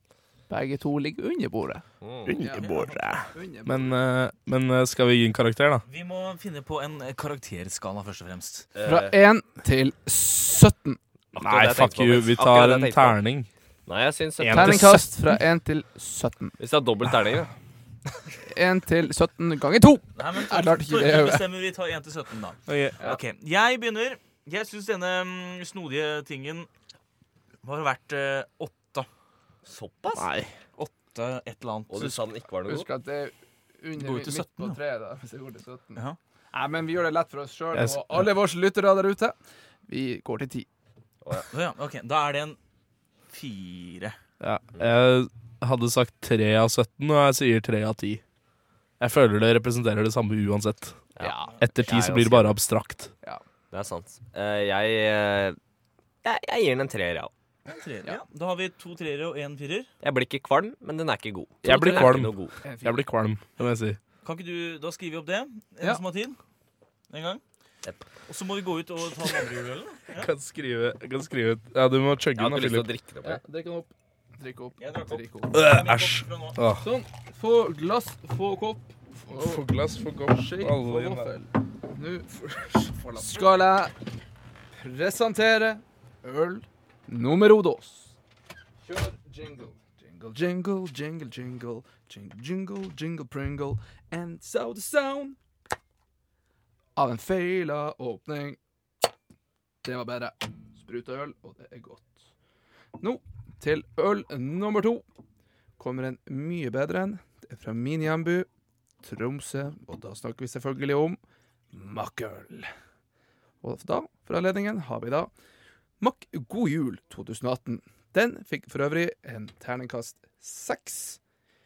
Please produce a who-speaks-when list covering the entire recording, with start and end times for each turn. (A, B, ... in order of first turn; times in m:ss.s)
0:00.5-0:01.8 A
0:02.0-0:02.4 B
0:02.2-0:05.8 C
0:02.4-0:04.0 A
0:02.5-0:03.0 D
0:05.9-0:08.7 D
0:08.7-0:09.2 B
0:08.8-0:11.0 A
0:11.3-0:13.2 B
0:11.4-0:13.5 C
0:13.9-0:14.8 B
0:14.4-0:15.2 C
0:14.5-0:16.5 A
0:16.6-0:17.5 B
0:18.5-0:21.5 A
0:20.1-0:26.7 D
0:22.7-0:23.0 C
0:27.6-0:29.1 D
0:29.6-0:30.3 B
0:30.1-0:30.5 C
0:30.8-0:32.3 D
0:31.9-0:32.9 B
0:32.6-0:36.0 A
0:34.0-0:34.8 D
0:36.5-0:39.4 A
0:37.7-0:38.2 C
0:39.9-0:40.7 A
0:41.5-0:42.6 D
0:43.3-0:44.2 D
0:44.4-0:48.2 C
0:49.0-0:51.0 C
0:51.2-0:52.6 B
0:51.2-0:51.5 A
0:51.6-0:53.1 C
0:53.7-0:55.6 B
0:56.2-0:57.3 B
0:57.6-0:59.9 D
1:00.0-1:02.5 B
1:01.6-1:04.0 C
1:02.6-1:03.1 A
1:04.2-1:06.4 D
1:07.1-1:07.4 D
1:08.3-1:10.3 D
1:10.1-1:12.9 C
1:12.4-1:13.4 B
1:13.2-1:15.6 A
1:14.8-1:16.6 D
1:15.5-1:16.8 C
1:16.8-1:19.6 A
1:19.3-1:21.3 C
1:20.3-1:23.9 A
1:24.8-1:28.2 A
1:28.8-1:35.4 A
1:37.0-1:38.6 A
1:39.8-1:42.2 A
1:43.0-1:45.0 A
1:45.8-1:48.5 A
1:49.0-1:51.2 A
1:51.7-1:52.7 A
1:53.6-1:55.3 A
1:56.0-2:01.2 A